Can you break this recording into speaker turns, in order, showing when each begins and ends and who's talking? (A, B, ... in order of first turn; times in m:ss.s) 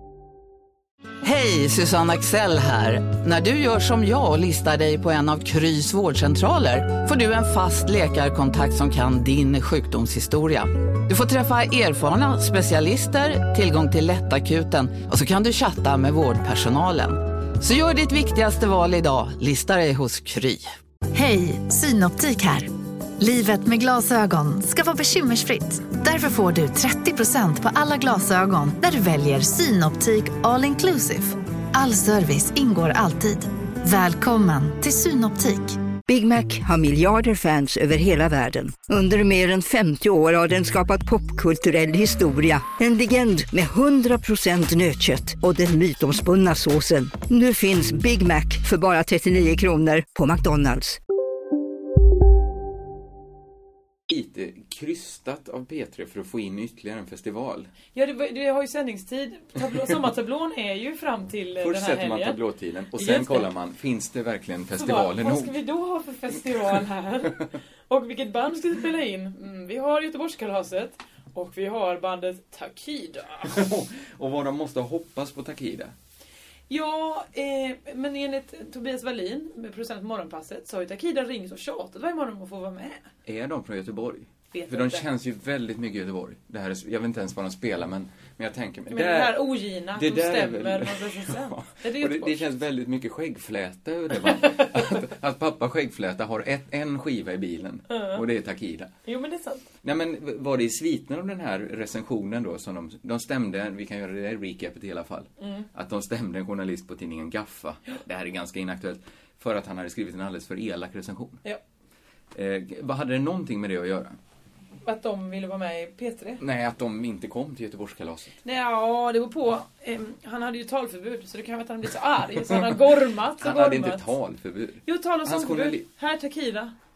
0:01.2-0:20.7 A
0:21.1-0:35.8 B
0:36.1-0:51.0 C
0:54.1-0:57.7 D
0:57.9-1:02.4 E
1:01.6-1:05.6 D
1:03.0-1:03.5 E
1:04.7-1:13.6 E
1:13.4-1:15.9 D
1:16.7-1:23.0 E
1:23.3-1:38.9 D
1:24.5-1:25.1 E
1:28.9-1:32.4 E
1:37.9-1:38.2 E
1:39.0-1:39.7 E
1:39.8-1:51.4 D
1:45.4-1:45.7 E
1:52.3-1:54.2 D
1:54.8-1:56.4 E
1:56.4-1:58.4 D
1:58.4-2:04.1 E
2:03.4-2:05.9 D
2:04.9-2:06.7 E